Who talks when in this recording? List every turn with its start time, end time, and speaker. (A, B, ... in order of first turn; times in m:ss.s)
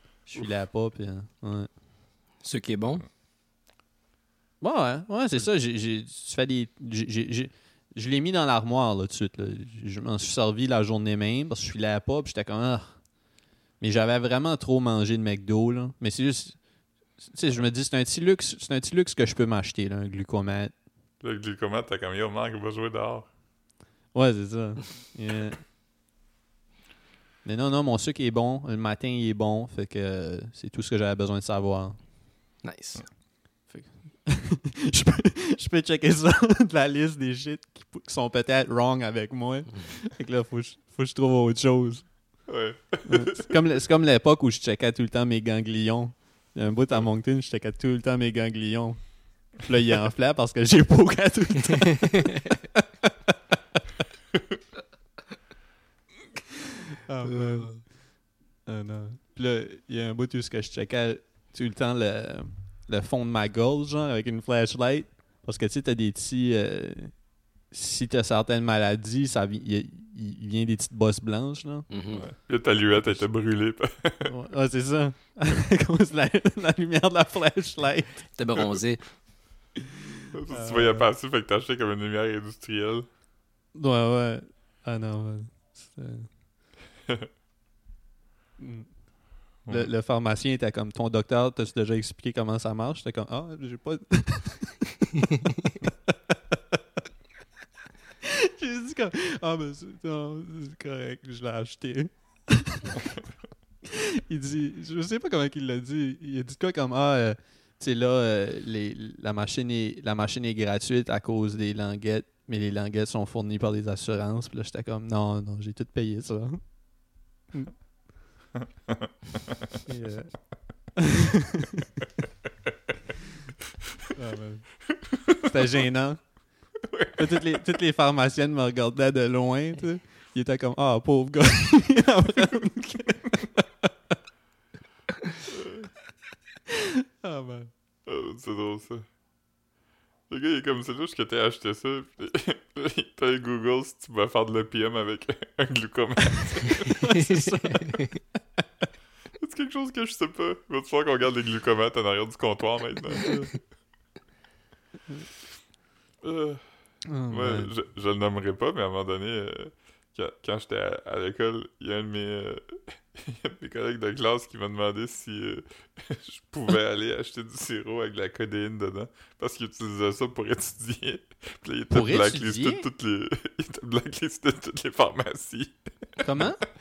0:00.3-0:01.7 A
0:02.4-0:03.0 B
0:04.6-0:13.0 A
0:13.8-0:16.6 A
0:17.2-0:20.7 A
0:21.2-0:23.3 C
0:24.1-0:25.6 A
0:27.4-0:32.0 A
0:32.6-0:33.0 B
0:33.7-0:42.1 A
0:42.5-0:43.6 C
0:43.1-0:53.3 A
0:57.1-0:58.0 A
0:57.4-0:57.6 B
0:58.7-1:07.1 A
1:07.7-1:11.9 A
1:11.9-1:12.3 B
1:12.1-1:14.3 C
1:14.2-1:18.3 A
1:18.4-1:19.0 B
1:20.3-1:23.1 C
1:20.5-1:21.1 A
1:23.8-1:26.3 A
1:28.6-1:28.9 A
1:29.6-1:29.9 C
1:29.7-1:35.9 A
1:38.2-1:43.1 A
1:43.9-1:56.6 A
1:58.6-1:59.7 C
1:59.9-2:00.4 A
2:01.0-2:02.0 A
2:04.2-2:04.7 A
2:05.1-2:05.5 C
2:05.4-2:06.3 A
2:06.8-2:07.6 C
2:07.2-2:13.7 A
2:15.6-2:15.9 C
2:16.7-2:17.7 A
2:18.0-2:19.0 C
2:20.3-2:27.2 C
2:26.9-2:28.2 A
2:27.8-2:28.0 B
2:29.4-2:33.4 C
2:33.2-2:33.5 A
2:36.2-2:36.6 C
2:37.1-2:37.7 A
2:37.3-2:56.6 C
2:51.9-2:52.9 A
2:56.2-2:56.6 A